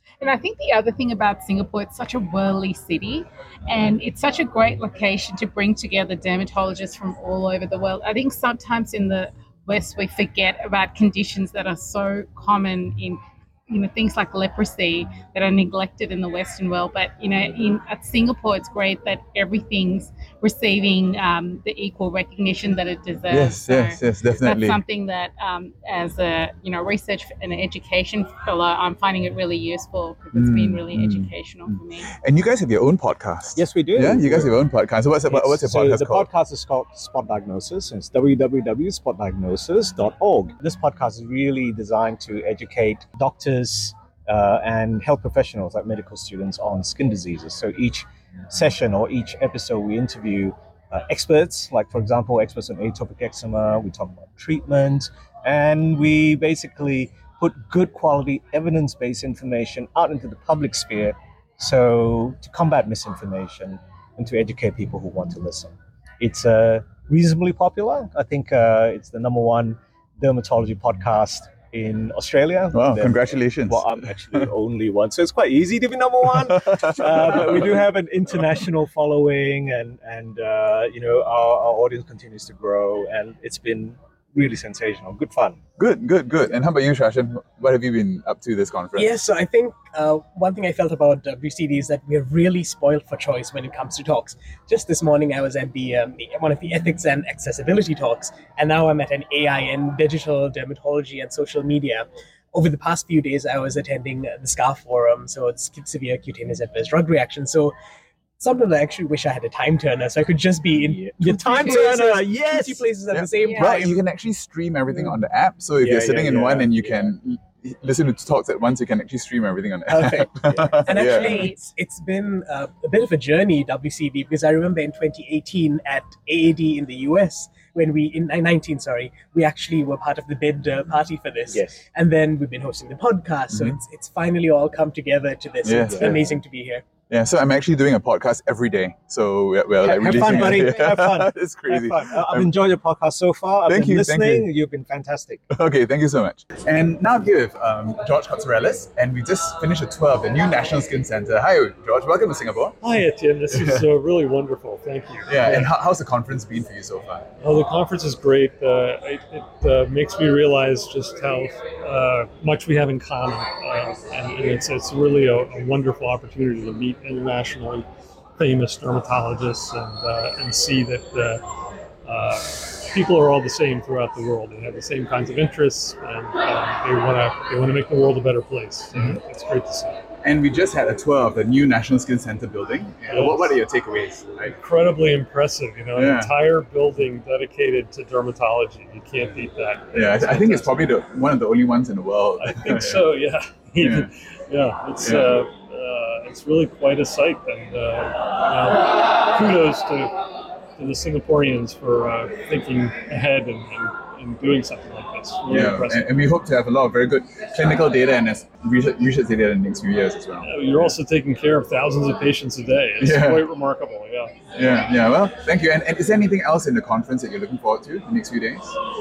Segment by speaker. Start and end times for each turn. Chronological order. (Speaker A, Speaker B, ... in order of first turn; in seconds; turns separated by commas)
Speaker A: 0.2-32.1, Speaker B: 23.3-24.8, Speaker B: 30.3-36.3, Speaker C: 33.5-34.6, Speaker C: 35.2-85.6, Speaker B: 72.7-73.9, Speaker B: 76.7-77.7, Speaker B: 85.8-89.2, Speaker D: 89.0-107.7, Speaker D: 108.4-113.9, Speaker C: 110.8-112.8, Speaker B: 111.6-112.0, Speaker B: 113.1-121.5, Speaker D: 120.0-136.8, Speaker B: 133.5-133.8, Speaker B: 135.6-136.4, Speaker B: 137.1-142.5, Speaker C: 139.8-145.4, Speaker B: 143.7-144.5, Speaker B: 145.5-152.8, Speaker E: 152.8-155.7, Speaker B: 153.5-153.9, Speaker B: 155.3-157.2, Speaker E: 157.4-171.4, Speaker E: 172.0-180.0, Speaker B: 178.9-179.2, Speaker B: 180.2-184.6, Speaker E: 183.1-183.6, Speaker E: 184.5-190.9, Speaker B: 185.9-186.3, Speaker B: 189.9-193.0, Speaker E: 192.4-200.1, Speaker B: 193.8-194.1, Speaker B: 195.0-195.4, Speaker E: 200.8-206.1, Speaker B: 205.4-210.5, Speaker E: 210.4-214.3, Speaker B: 213.0-213.4, Speaker B: 214.5-218.7